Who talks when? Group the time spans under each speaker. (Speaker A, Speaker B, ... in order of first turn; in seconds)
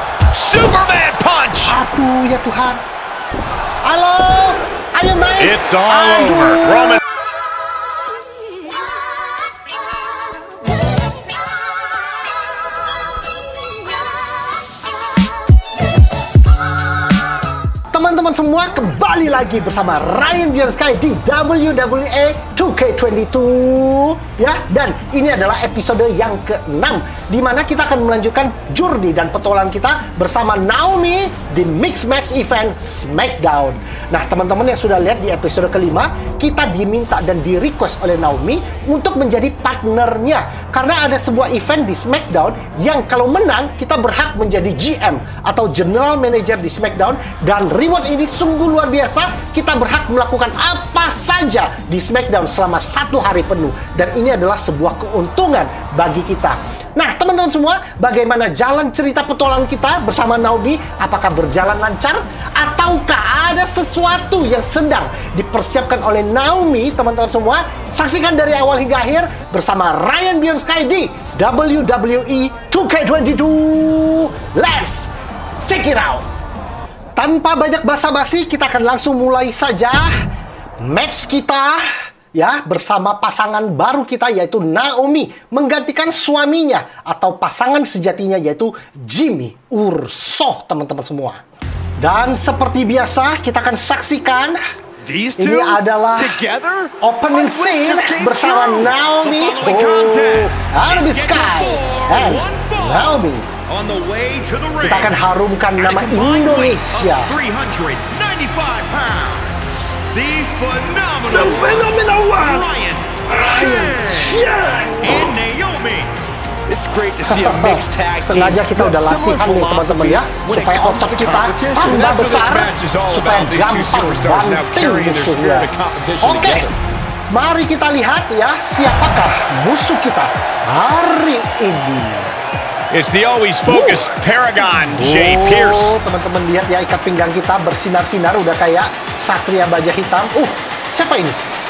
Speaker A: 0.3-1.8, 6.6-7.0, 99.2-100.4, 101.1-101.3, 102.2-103.0, 103.7-105.1, 105.8-109.5, 110.1-113.2, 115.0-116.1, 121.8-126.7, 132.9-136.0
Speaker B: 1.6-2.8, 3.8-7.0, 17.9-75.1, 75.6-76.3, 77.2-80.1, 80.8-91.4, 92.0-94.6, 95.4-96.4, 97.0-103.5, 104.8-107.4, 111.3-112.7, 113.3-115.4, 117.2-126.7, 127.3-132.3, 133.7-134.0, 134.9-141.4
Speaker C: 5.4-6.7, 95.0-102.8, 111.3-111.8, 113.3-114.4, 116.7-122.0